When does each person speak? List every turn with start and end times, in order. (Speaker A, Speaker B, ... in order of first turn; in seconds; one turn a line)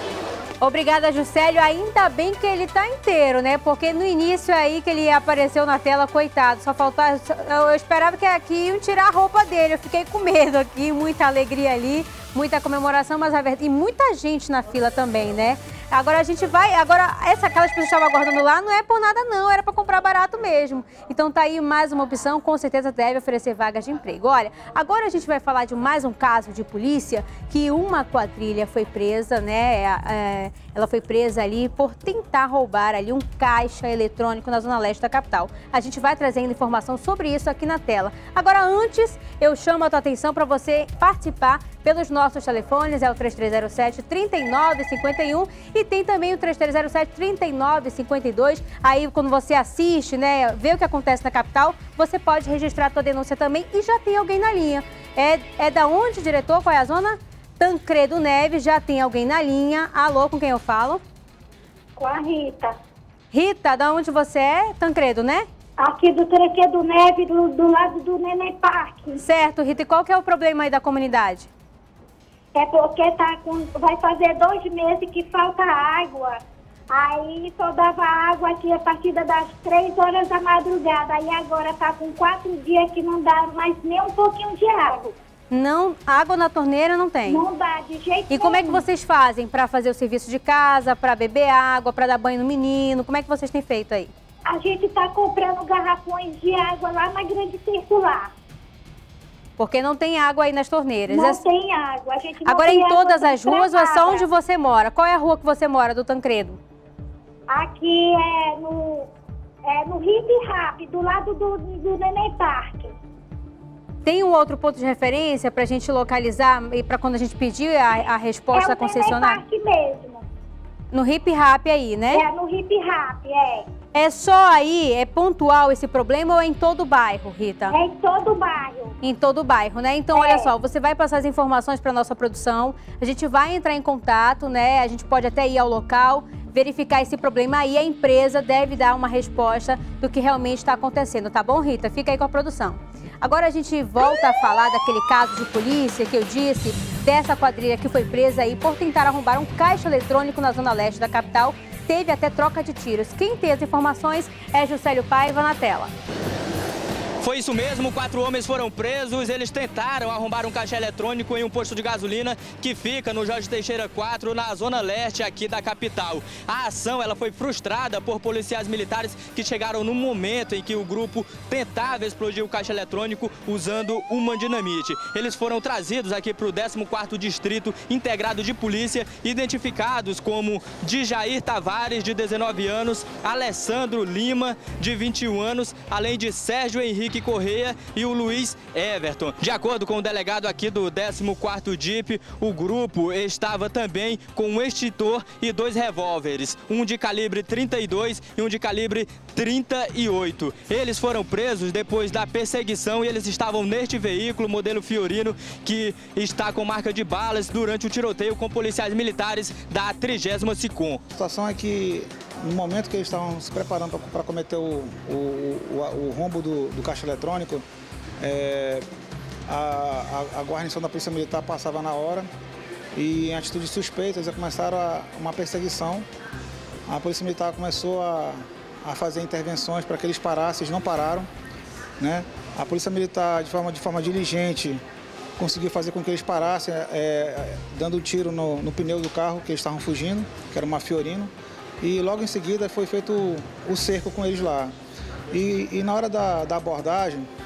Speaker A: 0.6-61.0
Speaker B: 62.0-62.8
Speaker A: 63.3-65.5
Speaker B: 65.8-69.2
Speaker A: 69.2-71.5
Speaker B: 72.5-85.2
Speaker A: 85.5-87.4
Speaker B: 87.2-88.8
Speaker A: 88.3-94.1
Speaker B: 94.5-98.3
Speaker A: 99.6-101.4
Speaker B: 101.1-104.3
Speaker A: 102.4-106.6
Speaker B: 107.5-109.1
Speaker B: 109.6-112.9
Speaker A: 114.0-119.4
Speaker B: 118.5-120.2
Speaker A: 120.9-122.3
Speaker B: 122.1-123.7
Speaker A: 123.9-127.8
Speaker B: 127.7-128.9
Speaker A: 129.0-155.9
Speaker B: 130.1-130.5
Speaker C: 157.2-211.0
Speaker D: 211.1-217.6
Speaker D: 218.2-218.8
Speaker D: 219.5-222.3
Speaker D: 222.9-226.1
Speaker D: 226.9-231.3
Speaker D: 232.0-234.8
Speaker D: 235.4-244.7
Speaker D: 245.3-247.3